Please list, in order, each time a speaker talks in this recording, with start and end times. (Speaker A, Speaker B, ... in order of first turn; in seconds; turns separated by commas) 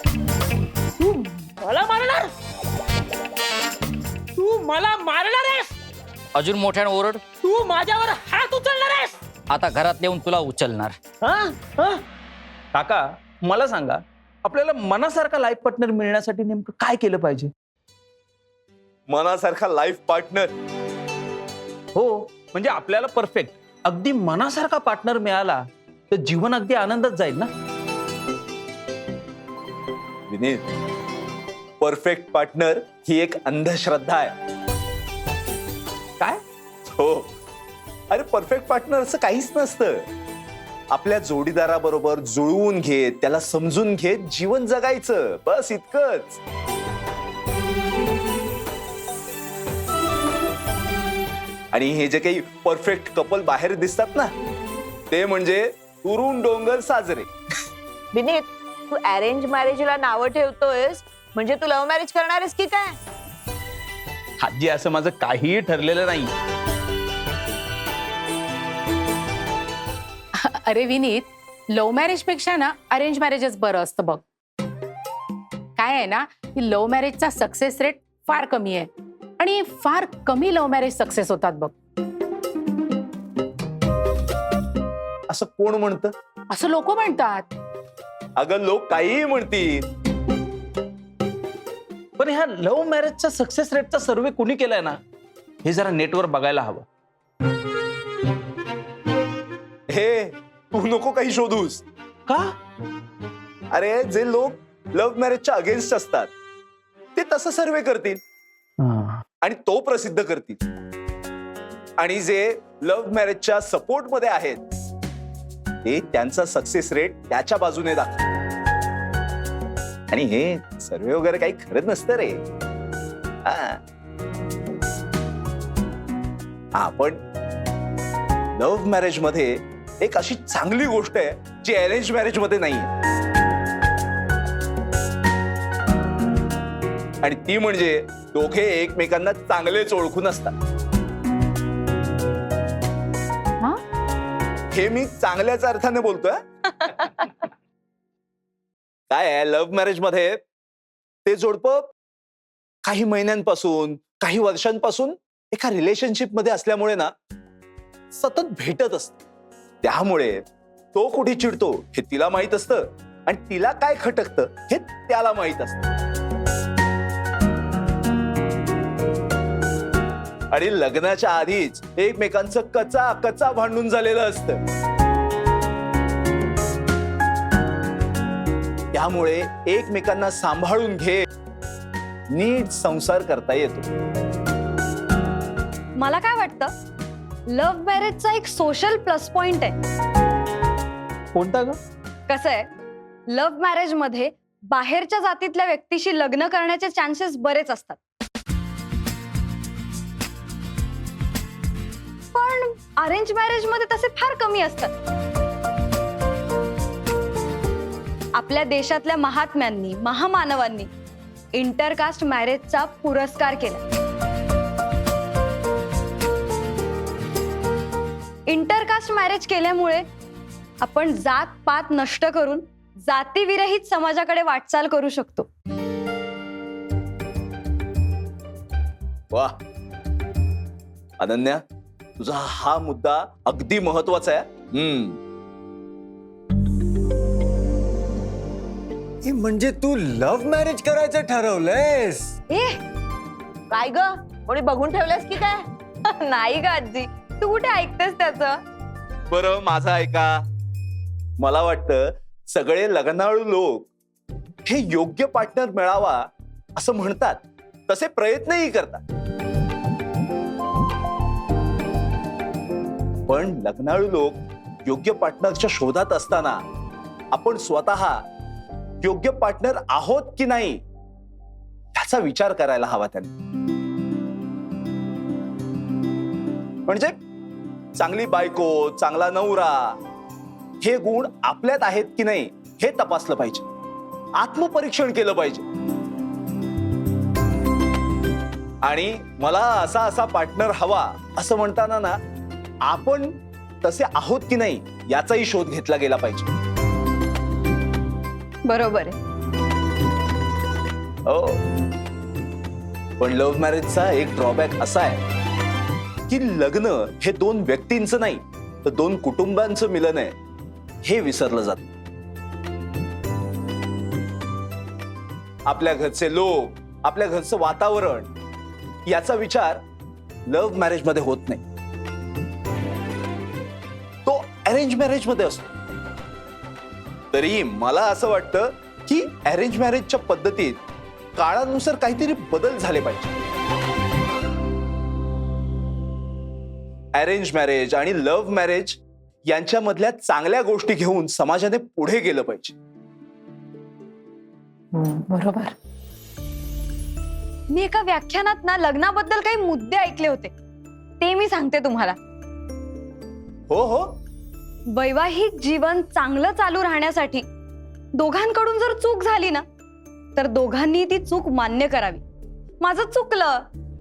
Speaker A: 1.0-2.3, Speaker A: 4.3-5.7, Speaker B: 6.3-7.2, Speaker A: 7.4-9.2, Speaker B: 9.5-11.0, Speaker A: 11.2-12.0, Speaker C: 12.7-17.5, Speaker D: 19.1-20.5, Speaker C: 21.9-27.5, Speaker D: 30.3-30.6, Speaker D: 31.8-34.3, Speaker D: 36.9-37.3, Speaker D: 38.1-40.0, Speaker D: 40.9-46.4, Speaker D: 51.7-54.3, Speaker D: 55.1-57.3, Speaker E: 58.1-63.0, Speaker C: 64.4-66.3, Speaker F: 70.4-74.2, Speaker F: 75.8-81.7, Speaker D: 85.3-86.1, Speaker F: 86.5-87.5, Speaker D: 88.4-89.8, Speaker C: 92.2-95.0, Speaker C: 95.6-96.8, Speaker D: 99.9-101.8, Speaker C: 102.3-102.5, Speaker D: 103.7-106.3, Speaker D: 107.1-108.2, Speaker C: 108.8-109.2, Speaker D: 109.4-110.7, Speaker D: 112.0-114.6, Speaker D: 115.8-118.2, Speaker D: 120.1-122.4, Speaker D: 123.4-123.8, Speaker D: 126.7-127.2, Speaker D: 128.5-132.9, Speaker D: 137.2-140.5, Speaker D: 144.7-146.4, Speaker D: 149.1-150.4, Speaker D: 151.2-151.9, Speaker D: 152.8-157.1, Speaker D: 158.1-159.2, Speaker D: 159.8-160.4, Speaker D: 160.9-165.9, Speaker D: 170.5-174.6, Speaker D: 178.9-181.2, Speaker D: 182.3-183.9, Speaker G: 186.0-186.7, Speaker G: 187.5-189.7, Speaker C: 191.3-191.8, Speaker G: 192.3-192.7, Speaker G: 193.3-198.0, Speaker G: 202.3-204.9, Speaker G: 208.3-210.9, Speaker G: 211.5-213.8, Speaker G: 218.5-220.1, Speaker G: 220.8-225.5, Speaker D: 229.3-229.6, Speaker D: 231.2-231.6, Speaker D: 232.2-235.2, Speaker H: 239.2-242.3, Speaker G: 242.5-242.8, Speaker E: 243.7-245.6, Speaker G: 246.1-248.6, Speaker D: 249.3-250.4, Speaker D: 251.4-253.9, Speaker D: 254.6-259.0, Speaker D: 263.3-266.6, Speaker D: 267.3-268.2, Speaker D: 269.0-270.8, Speaker D: 271.9-273.3, Speaker D: 276.9-277.1, Speaker D: 277.9-280.0, Speaker D: 280.8-283.7, Speaker D: 284.4-285.6, Speaker D: 288.8-292.2, Speaker D: 292.9-296.5, Speaker G: 298.7-299.1, Speaker D: 301.2-301.6, Speaker D: 303.2-305.2, Speaker D: 306.3-310.4, Speaker D: 311.0-311.9, Speaker D: 315.7-318.3, Speaker D: 319.1-319.8, Speaker D: 320.5-321.6, Speaker D: 324.2-325.7, Speaker D: 327.3-330.8, Speaker D: 331.4-333.4, Speaker D: 337.1-342.8, Speaker F: 344.9-345.7, Speaker G: 347.7-350.5, Speaker G: 351.2-352.2, Speaker D: 353.7-354.2, Speaker G: 354.9-357.4, Speaker G: 358.2-359.6, Speaker G: 360.4-362.2, Speaker G: 362.8-363.6